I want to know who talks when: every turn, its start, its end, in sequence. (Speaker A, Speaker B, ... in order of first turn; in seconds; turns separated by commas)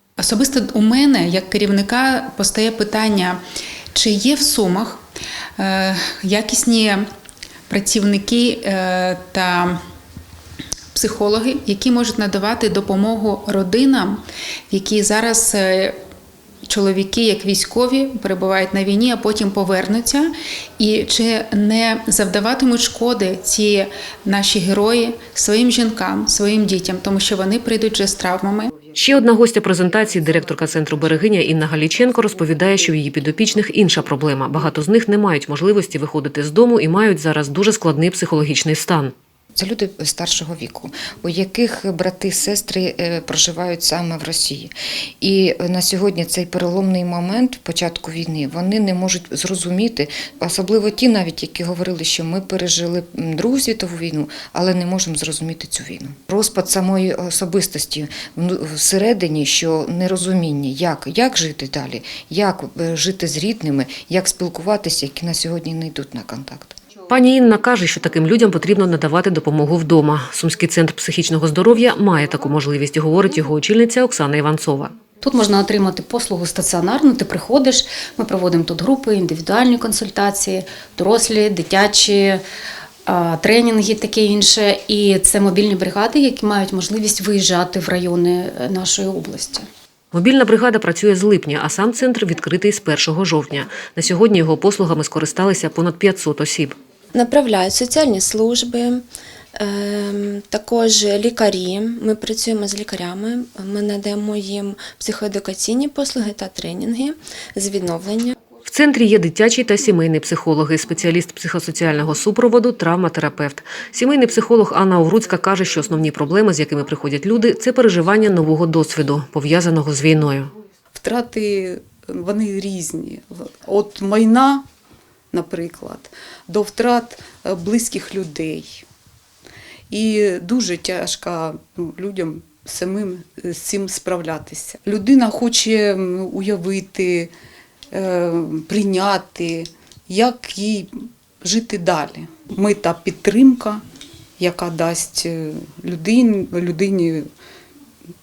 Speaker A: 0.2-3.4, Speaker A: 3.9-5.0, Speaker A: 5.6-7.0, Speaker A: 7.7-9.8, Speaker A: 10.9-14.2, Speaker A: 14.7-15.9, Speaker A: 16.7-20.3, Speaker A: 20.8-28.7, Speaker B: 28.9-39.1, Speaker C: 39.5-66.8, Speaker B: 67.1-74.9, Speaker D: 75.2-82.4, Speaker D: 83.0-89.7, Speaker B: 90.1-96.8, Speaker E: 97.1-99.0, Speaker E: 99.5-108.4, Speaker B: 108.6-120.5, Speaker F: 120.9-124.6, Speaker F: 125.3-128.8, Speaker F: 129.9-137.3, Speaker F: 137.9-143.8, Speaker F: 144.4-147.2